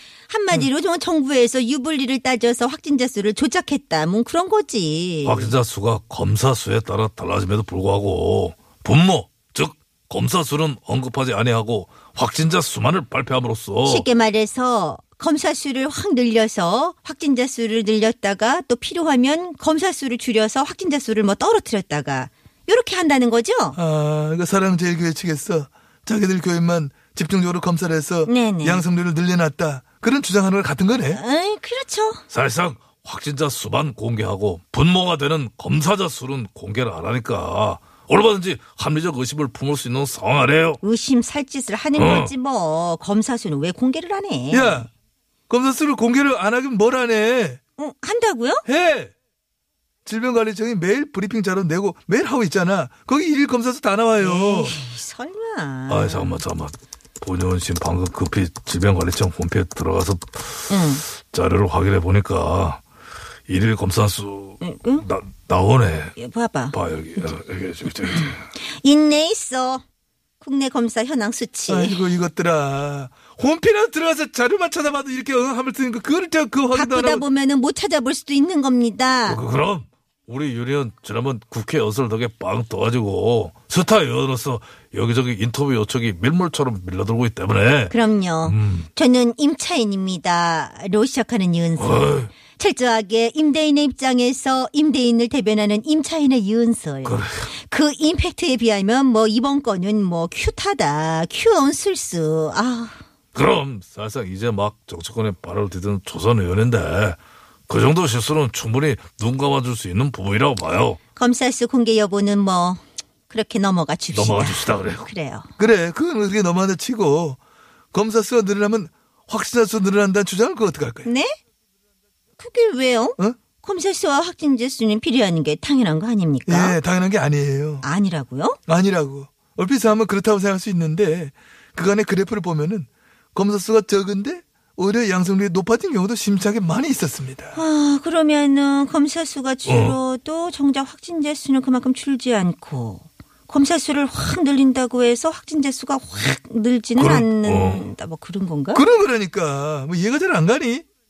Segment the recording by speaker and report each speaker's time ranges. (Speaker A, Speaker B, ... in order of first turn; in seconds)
Speaker A: 0.3-5.5, 13.8-23.8, 28.2-28.9, 31.1-32.2, 40.8-44.8, 47.8-48.6, 54.2-56.4, 60.7-61.0, 64.6-65.1, 66.2-66.8, 68.7-69.8, 70.4-72.0, 76.7-79.4, 87.9-103.0, 111.2-115.5, 121.0-121.3, 122.4-126.8, 127.8-128.6, 137.5-148.9
Speaker B: 5.2-14.1, 32.3-40.8, 42.0-42.3, 55.9-62.8, 63.5-66.2, 66.7-68.4, 79.3-88.9, 91.8-92.3, 97.0-97.5, 103.3-111.0, 114.1-115.1, 139.7-140.0, 147.0-147.9
Speaker C: 23.8-31.2, 44.5-44.9, 45.5-47.6, 48.7-49.1, 50.1-54.8, 71.7-77.2, 115.6-117.4, 117.9-121.1, 126.5-127.9, 128.7-137.6, 148.7-150.8